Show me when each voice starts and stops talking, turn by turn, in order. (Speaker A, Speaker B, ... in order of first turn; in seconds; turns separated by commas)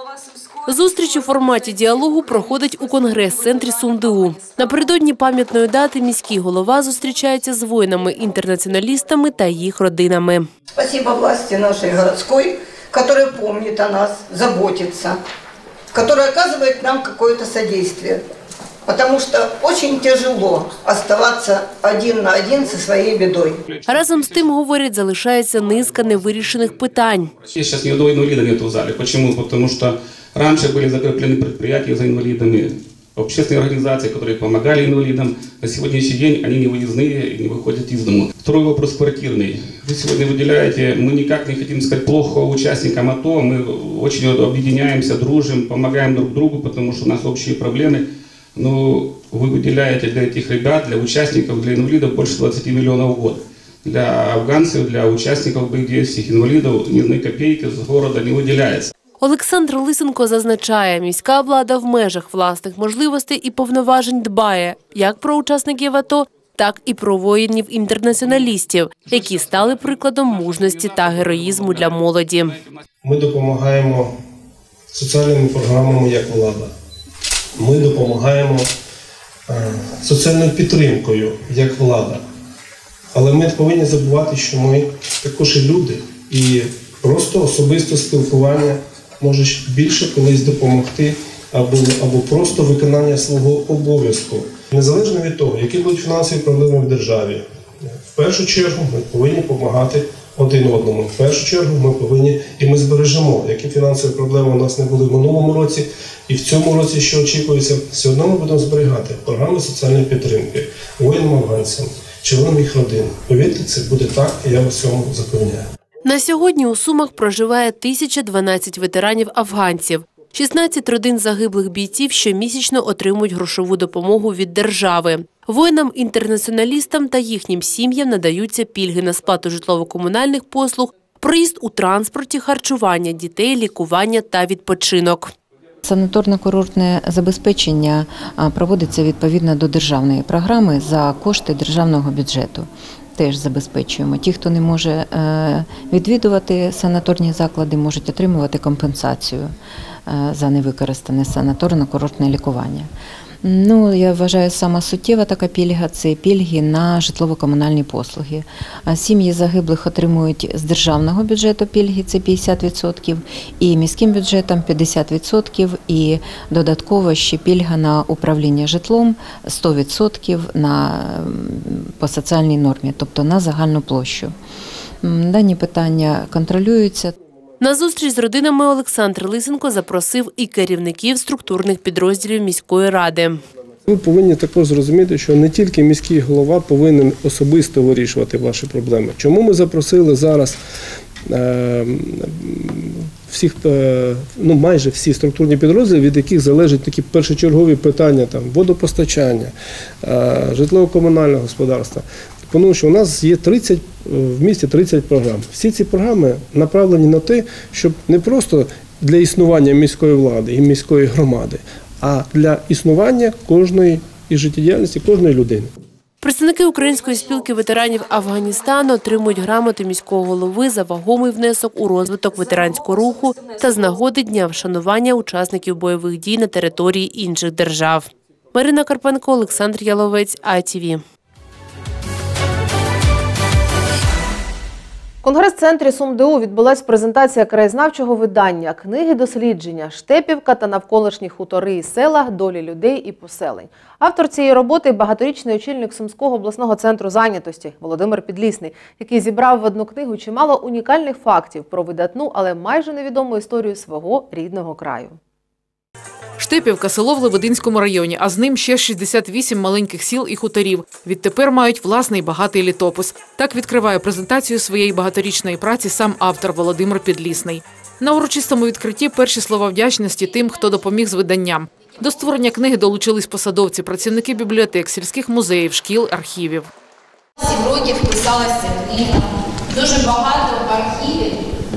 Speaker A: 0.6-10.5, Speaker B: 10.7-15.2, Speaker B: 15.9-18.2, Speaker B: 18.9-23.6, Speaker A: 23.9-27.4, Speaker C: 27.5-48.0, Speaker C: 48.5-58.9, Speaker A: 59.2-72.6, Speaker D: 73.0-74.2, Speaker D: 74.9-76.7, Speaker D: 77.6-78.7, Speaker D: 79.5-82.2, Speaker D: 83.1-115.7, Speaker A: 116.0-135.3, Speaker E: 135.8-149.5, Speaker E: 150.1-152.9, Speaker E: 153.4-174.3, Speaker E: 175.0-177.1, Speaker A: 177.6-183.4, Speaker D: 183.9-190.6, Speaker D: 191.3-215.7, Speaker A: 216.2-231.0, Speaker F: 235.2-255.2, Speaker G: 256.4-276.7, Speaker H: 277.4-279.2, Speaker H: 279.7-281.3